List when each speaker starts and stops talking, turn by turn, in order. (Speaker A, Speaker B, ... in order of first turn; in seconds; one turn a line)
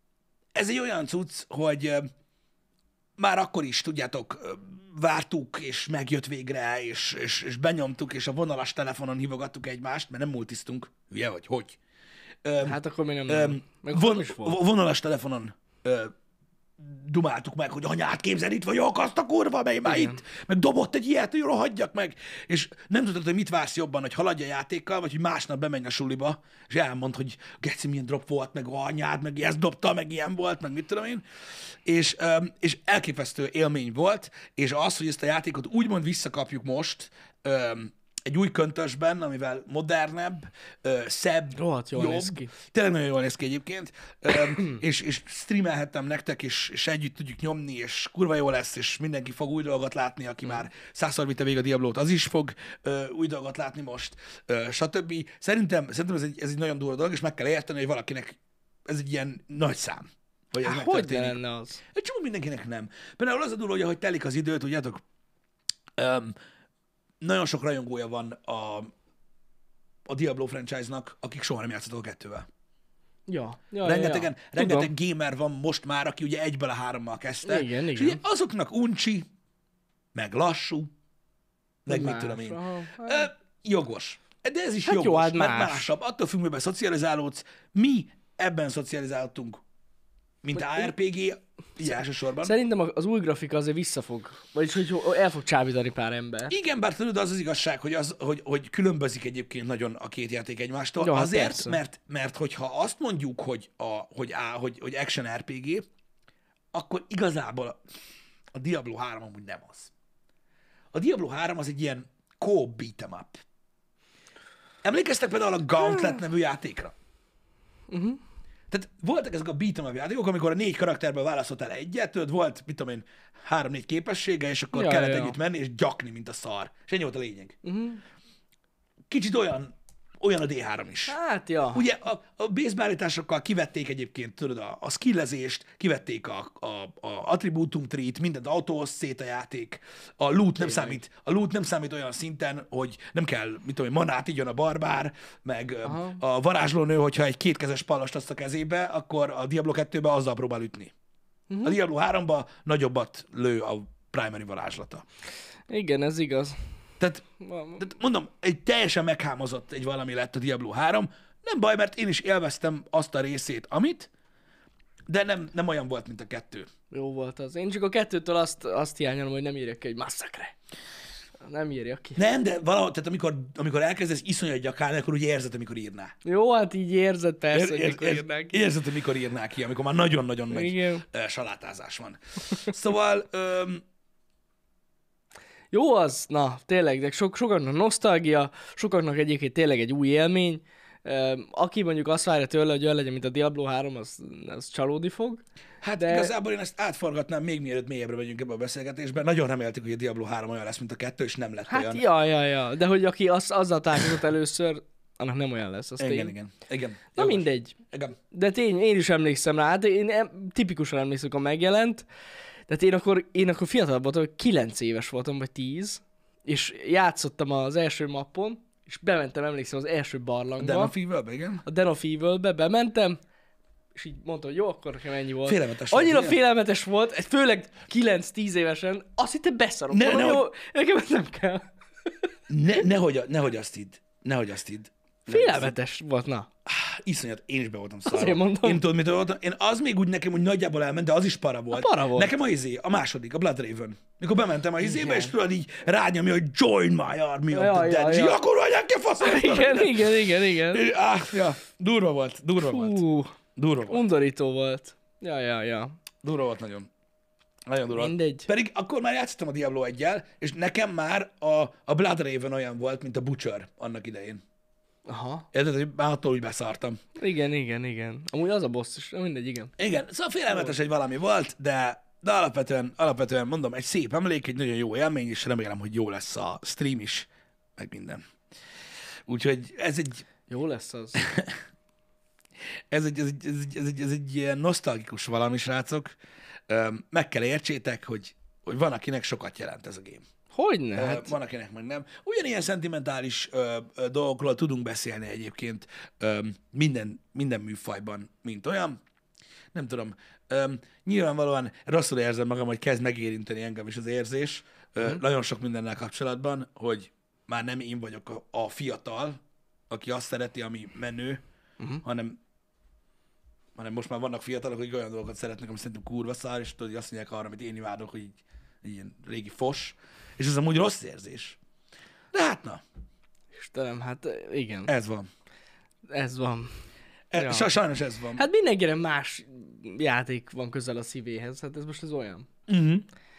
Speaker A: 0.5-2.1
Speaker A: 3.2-11.8
Speaker A: 12.4-16.1
Speaker B: 12.6-14.6
Speaker A: 16.8-31.2
Speaker B: 19.8-20.2
Speaker A: 31.8-61.4
Speaker B: 41.5-42.5
Speaker B: 60.6-61.8
Speaker A: 61.9-65.0
Speaker A: 66.0-66.3
Speaker A: 67.2-68.9
Speaker A: 70.1-72.5
Speaker B: 73.3-74.9
Speaker A: 73.8-79.3
Speaker B: 77.4-78.2
Speaker A: 80.1-80.9
Speaker A: 81.8-89.6
Speaker B: 81.9-83.3
Speaker B: 84.8-85.9
Speaker A: 90.4-92.5
Speaker B: 90.6-90.9
Speaker B: 92.4-96.5
Speaker A: 96.5-105.8
Speaker B: 101.0-101.8
Speaker A: 106.7-107.8
Speaker A: 108.5-109.9
Speaker A: 110.9-113.4
Speaker A: 114.8-116.9
Speaker B: 117.9-118.2
Speaker A: 118.7-127.5
Speaker B: 124.7-125.3
Speaker B: 127.6-128.0
Speaker A: 129.1-131.1
Speaker B: 131.1-131.8
Speaker A: 131.7-150.9
Speaker B: 140.6-141.0
Speaker B: 145.8-146.2
Speaker B: 151.5-151.8
Speaker A: 151.6-155.0
Speaker B: 155.7-156.6
Speaker A: 157.0-157.2
Speaker B: 157.4-157.9
Speaker A: 157.8-164.1
Speaker A: 165.1-166.7
Speaker B: 166.9-170.5
Speaker B: 171.4-172.2
Speaker A: 172.2-176.1
Speaker B: 176.2-178.6
Speaker A: 177.5-183.8
Speaker B: 180.5-181.0
Speaker B: 185.7-195.4
Speaker A: 195.8-202.0
Speaker B: 196.0-196.3
Speaker B: 201.7-206.3
Speaker A: 206.0-208.2
Speaker B: 207.2-207.7
Speaker B: 208.3-212.1
Speaker B: 212.7-220.9
Speaker A: 220.6-221.6
Speaker B: 221.6-223.2
Speaker B: 223.9-231.6
Speaker A: 225.4-226.4
Speaker A: 229.9-230.5
Speaker A: 232.5-235.8
Speaker B: 235.3-236.5
Speaker A: 236.7-253.0
Speaker B: 238.1-238.8
Speaker B: 241.7-242.3
Speaker B: 244.8-245.3
Speaker B: 247.5-248.4
Speaker B: 249.2-250.8
Speaker B: 252.6-253.3
Speaker A: 253.6-254.0
Speaker B: 253.9-255.9
Speaker A: 256.2-256.9
Speaker A: 257.7-264.4
Speaker B: 257.9-258.5
Speaker B: 265.1-265.5
Speaker A: 265.5-267.0
Speaker B: 267.2-269.7
Speaker A: 269.8-278.2
Speaker A: 279.2-280.3
Speaker B: 280.5-281.2
Speaker A: 281.1-281.6
Speaker A: 282.9-286.1
Speaker A: 286.7-290.2
Speaker B: 290.5-291.3
Speaker A: 290.9-299.0
Speaker A: 299.7-309.4
Speaker A: 309.9-311.4
Speaker A: 312.0-312.4
Speaker A: 313.8-321.6
Speaker A: 322.3-322.8
Speaker B: 323.5-324.9
Speaker A: 324.9-325.3
Speaker B: 326.1-326.7
Speaker A: 327.3-328.4
Speaker B: 327.3-327.7
Speaker B: 328.4-332.5
Speaker A: 332.7-333.1